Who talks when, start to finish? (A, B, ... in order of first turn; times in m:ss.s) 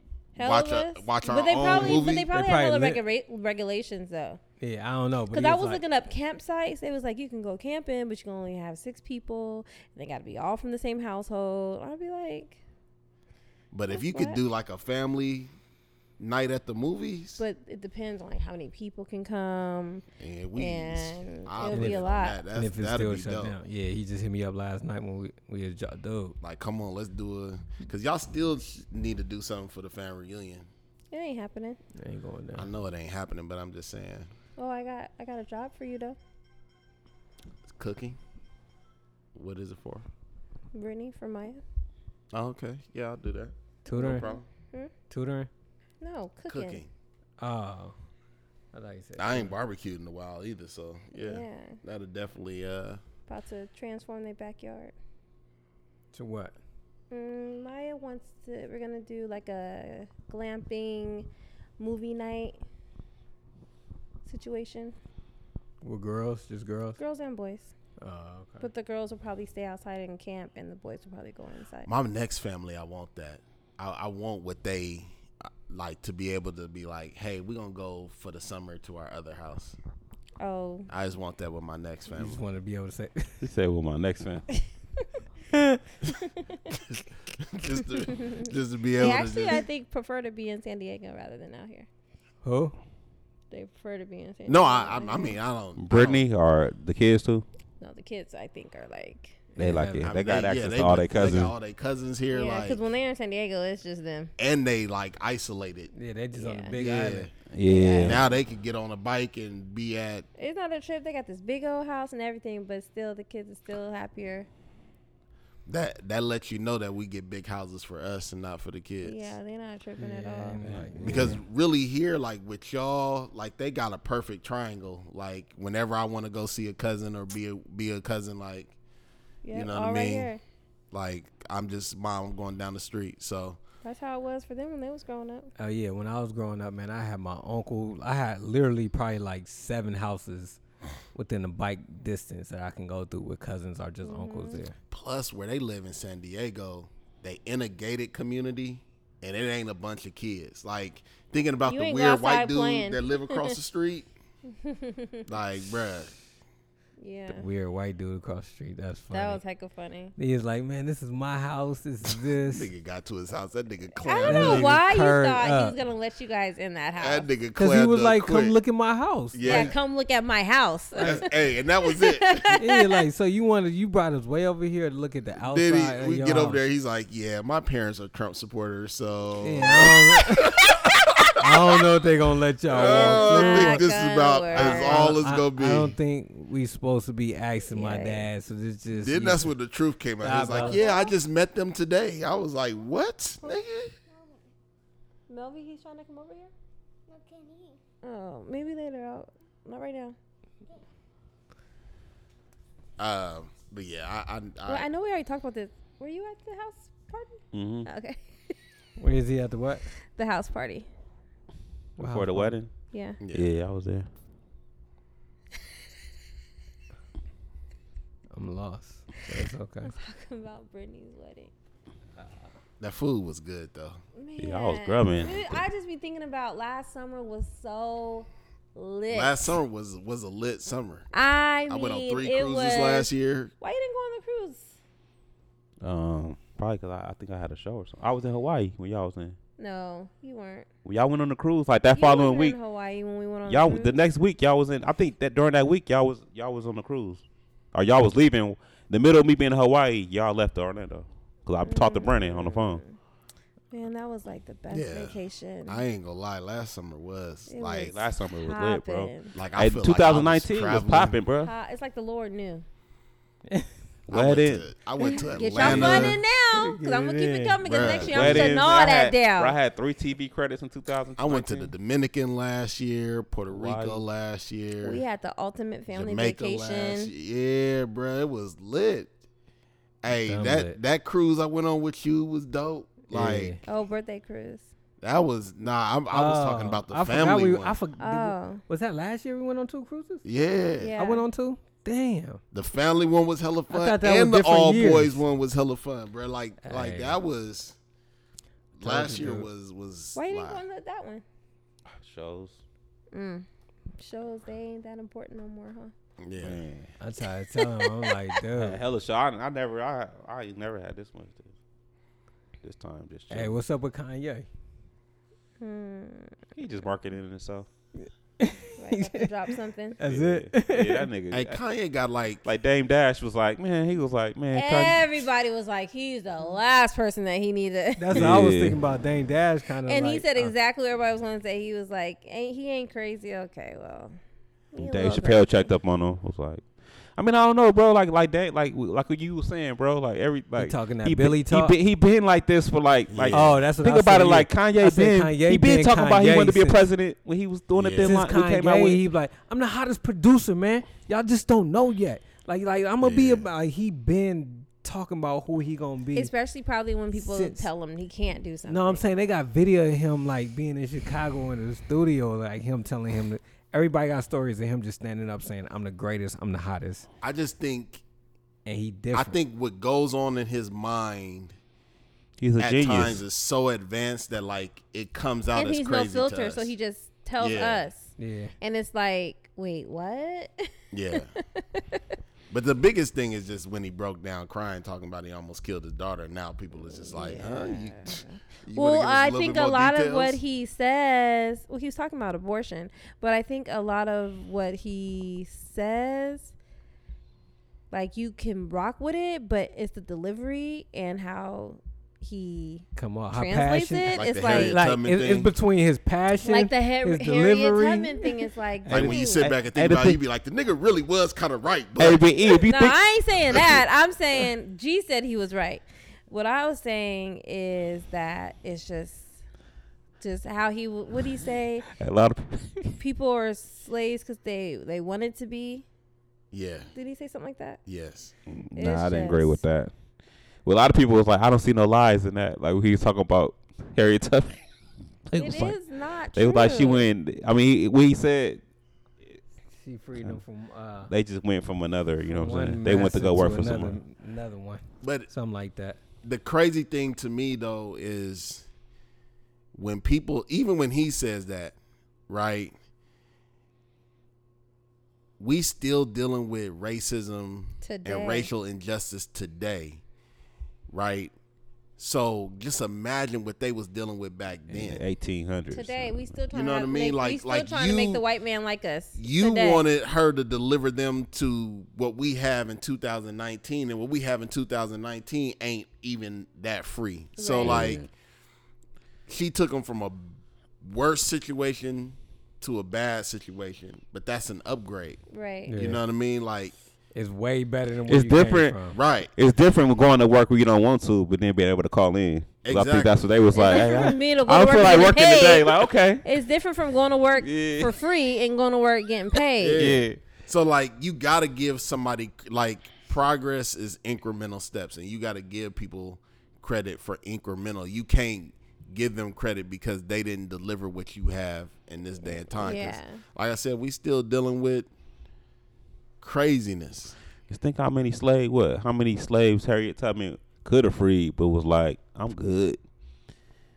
0:00.4-0:04.4 A
0:00.4-0:02.3 B
0:01.6-0:02.0 C
0:02.3-0:03.0 D
0:04.6-0:05.8 D
0:05.3-0:12.6 A
0:13.7-0:15.5 B
0:13.9-0:14.4 A
0:16.2-0:17.4 B
0:17.4-0:20.0 A
0:20.2-0:23.6 B
0:20.6-0:22.4 A
0:21.7-0:22.0 D
0:22.5-0:26.4 D
0:26.4-0:30.7 B
0:31.1-0:31.8 A
0:32.0-0:32.7 D
0:32.6-0:34.3 B
0:34.6-0:36.2 A
0:37.7-0:38.2 B
0:39.4-0:40.1 B
0:40.7-0:41.6 A
0:42.3-0:44.4 B
0:43.8-0:44.3 D
0:44.1-0:44.9 A
0:45.1-0:45.5 D
0:46.0-0:46.8 A
0:46.5-0:46.9 B
0:47.4-0:47.9 D
0:48.7-0:49.5 D
0:49.2-0:53.0 B
0:51.1-0:51.8 A
0:53.3-0:54.9 A
0:56.1-0:56.6 D
0:57.1-1:01.3 A
1:01.8-1:02.6 A
1:04.3-1:05.0 A
1:05.8-1:07.0 D
1:07.0-1:07.7 A
1:08.0-1:08.7 D
1:08.6-1:11.9 A
1:11.9-1:19.8 B
1:20.4-1:20.9 A
1:20.9-1:22.4 B
1:22.2-1:23.4 D
1:23.4-1:24.5 C
1:25.5-1:25.8 D
1:26.8-1:29.6 B
1:28.1-1:31.9 A
1:32.4-1:32.8 D
1:33.5-1:35.4 A
1:34.5-1:36.3 B
1:35.8-1:37.5 C
1:37.8-1:39.4 A
1:39.6-1:40.1 D
1:39.6-1:41.5 C
1:40.0-1:42.8 B
1:42.3-1:44.3 A
1:44.4-1:45.9 B
1:45.9-1:47.3 D
1:46.4-1:46.8 A
1:46.7-1:47.3 B
1:47.5-1:48.2 C
1:47.6-1:48.2 A
1:48.0-1:50.3 B
1:50.4-1:54.5 A
1:55.7-1:59.4 B
1:59.0-2:00.6 A
2:00.0-2:01.4 D
2:00.6-2:01.4 C
2:01.0-2:08.7 B
2:09.4-2:10.4 A
2:09.5-2:10.3 B
2:10.9-2:13.6 B
2:13.8-2:15.5 A
2:15.6-2:20.6 D
2:21.1-2:24.8 D
2:24.0-2:24.6 A
2:24.9-2:34.1 B
2:31.7-2:33.6 A
2:34.5-2:35.3 A
2:35.3-2:36.1 B
2:37.0-2:37.4 A
2:37.3-2:39.4 D
2:39.1-2:40.1 A
2:40.2-2:42.7 D
2:42.4-2:44.8 B
2:44.0-2:47.3 A
2:44.2-2:45.8 D
2:47.0-2:48.6 B
2:47.6-2:49.7 D
2:49.3-2:49.8 B
2:49.4-2:51.3 A
2:51.0-2:52.6 B
2:51.8-2:53.0 A
2:52.5-2:56.6 D
2:55.4-3:01.6 B
2:59.4-3:00.6 D
3:01.4-3:03.8 D
3:02.7-3:05.9 B
3:02.7-3:05.1 A
3:04.5-3:09.5 D
3:07.7-3:08.3 A
3:08.9-3:13.9 B
3:10.2-3:10.8 D
3:10.6-3:11.1 A
3:15.3-3:16.5 A
3:17.1-3:20.2 A
3:23.0-3:24.9 B
3:24.7-3:28.5 A
3:27.5-3:27.9 C
3:29.0-3:29.9 D
3:30.2-3:30.9 A
3:32.0-3:32.6 D
3:32.0-3:32.7 C
3:32.9-3:33.2 A
3:33.2-3:33.5 B
3:33.3-3:34.1 C
3:38.3-3:39.9 D
3:39.8-3:41.5 A
3:42.8-3:44.0 B
3:44.2-3:49.6 A
3:44.4-3:45.6 C
3:49.1-3:51.1 B
3:51.1-3:53.1 A
3:51.7-3:53.5 B
3:53.6-3:54.8 A
3:55.8-3:59.4 C
3:59.6-4:00.7 A
4:00.8-4:02.6 C
4:01.9-4:04.0 A
4:03.5-4:07.2 C
4:07.7-4:12.8 C
4:11.6-4:13.0 A
4:13.7-4:15.8 A
4:14.7-4:17.9 B
4:17.5-4:19.3 A
4:17.8-4:21.5 C
4:19.3-4:21.2 B
4:21.4-4:22.6 A
4:24.1-4:24.6 C
4:24.1-4:26.2 B
4:25.0-4:29.6 A
4:25.6-4:26.2 C
4:26.5-4:27.6 D
4:27.6-4:28.5 B
4:28.0-4:31.7 C
4:31.2-4:35.0 B
4:33.5-4:34.0 C
4:34.8-4:37.1 A
4:35.9-4:39.1 B
4:40.0-4:43.6 B
4:40.2-4:40.8 D
4:43.1-4:43.6 D
4:43.7-4:44.7 A
4:45.0-4:47.8 B
4:46.1-4:50.2 D
4:48.0-4:48.6 A
4:50.2-4:50.9 B
4:50.8-4:51.2 A
4:51.0-4:52.4 D
4:52.5-4:57.8 B
4:53.7-4:55.2 D
4:56.6-4:57.2 D
4:58.8-5:00.6 B
4:58.8-4:59.5 D
5:00.2-5:01.2 A
5:01.9-5:02.6 C
5:03.1-5:03.4 A
5:04.0-5:05.9 A
5:06.2-5:06.6 B
5:06.4-5:06.9 C
5:07.0-5:08.8 D
5:07.6-5:08.1 A
5:08.6-5:11.5 C
5:12.6-5:13.6 C
5:13.3-5:14.5 D
5:15.6-5:16.4 A
5:16.6-5:17.7 C
5:18.4-5:21.1 D
5:18.8-5:20.0 A
5:20.0-5:21.6 C
5:21.3-5:22.4 B
5:22.4-5:25.2 C
5:24.5-5:28.4 A
5:28.0-5:30.5 D
5:28.1-5:28.8 C
5:29.9-5:34.1 A
5:34.7-5:35.7 A
5:34.8-5:49.0 C
5:40.6-5:41.8 D
5:43.1-5:43.6 B
5:43.3-5:46.8 D
5:47.8-5:48.2 B
5:48.0-5:56.3 D
5:53.0-5:53.5 B
5:56.2-5:59.0 A
5:57.2-5:57.7 D
5:58.7-6:07.1 D
6:07.2-6:08.0 B
6:08.7-6:09.4 D
6:09.1-6:11.6 B
6:12.4-6:13.2 C
6:12.6-6:16.7 B
6:15.5-6:22.0 A
6:17.4-6:17.9 B
6:18.2-6:18.5 D
6:20.9-6:21.3 B
6:22.5-6:30.4 B
6:27.1-6:36.5 A
6:37.9-6:44.8 A
6:43.0-6:48.3 D
6:44.1-6:45.5 B
6:46.4-6:49.5 A
6:48.9-6:50.2 C
6:48.9-6:52.2 B
6:52.0-6:53.0 C
6:52.5-6:59.3 A
7:00.2-7:01.9 A
7:01.9-7:03.0 C
7:03.0-7:05.8 A
7:06.5-7:06.9 B
7:07.0-7:07.8 A
7:07.9-7:08.3 B
7:08.5-7:09.9 C
7:08.8-7:09.6 A
7:10.6-7:14.6 C
7:15.3-7:15.8 C
7:15.4-7:17.1 A
7:16.4-7:18.6 C
7:19.8-7:21.1 D
7:21.1-7:24.0 C
7:22.3-7:26.0 D
7:25.0-7:25.3 B
7:26.2-7:28.7 B
7:29.7-7:31.8 B
7:32.3-7:32.7 B
7:35.4-7:40.0 B
7:37.8-7:38.5 A
7:40.9-7:41.3 B
7:42.0-7:45.0 B
7:44.7-7:46.2 C
7:45.7-7:49.8 A
7:46.5-7:48.2 B
7:49.2-7:58.0 B
7:57.4-7:58.0 A
7:57.6-7:58.1 C
7:59.3-8:05.2 B
8:05.3-8:05.8 A
8:05.7-8:06.0 D
8:05.7-8:06.7 B
8:07.2-8:09.0 D
8:08.1-8:08.8 C
8:08.9-8:09.3 B
8:09.4-8:16.2 C
8:12.6-8:13.2 B
8:13.5-8:20.0 A
8:17.4-8:17.9 C
8:19.6-8:34.9 B
8:19.8-8:20.2 C
8:32.6-8:33.2 A
8:36.2-8:37.2 B
8:37.5-8:42.8 C